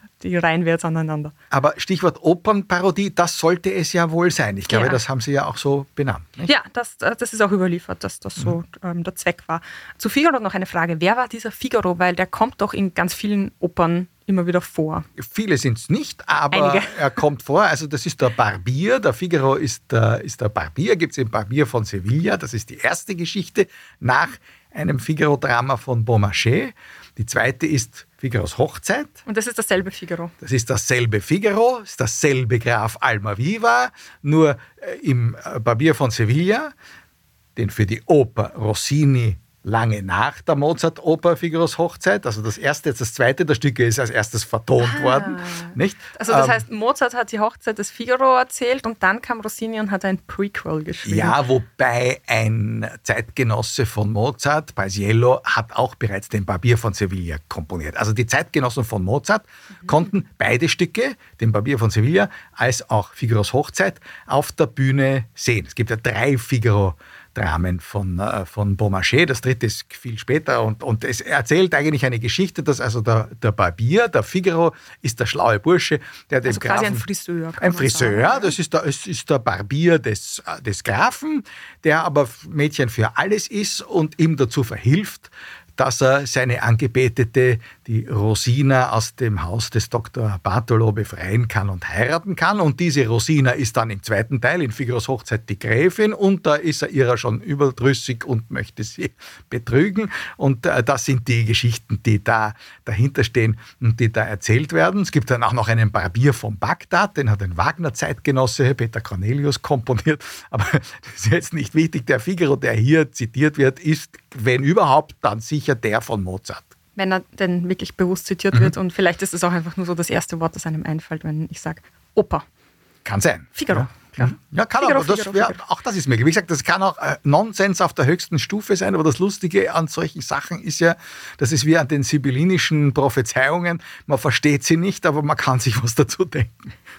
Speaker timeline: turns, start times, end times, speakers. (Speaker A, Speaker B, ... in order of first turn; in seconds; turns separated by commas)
Speaker A: 0.2-1.3, Speaker B: 1.5-6.5, Speaker A: 4.7-5.0, Speaker A: 6.4-15.1, Speaker B: 15.2-29.2, Speaker A: 16.5-17.0, Speaker A: 29.3-30.3, Speaker B: 30.4-36.7, Speaker B: 37.5-46.6, Speaker A: 44.8-51.4, Speaker B: 51.0-77.0, Speaker A: 76.5-78.5, Speaker B: 77.6-116.7, Speaker A: 117.0-122.4, Speaker B: 123.0-136.7, Speaker A: 123.5-125.6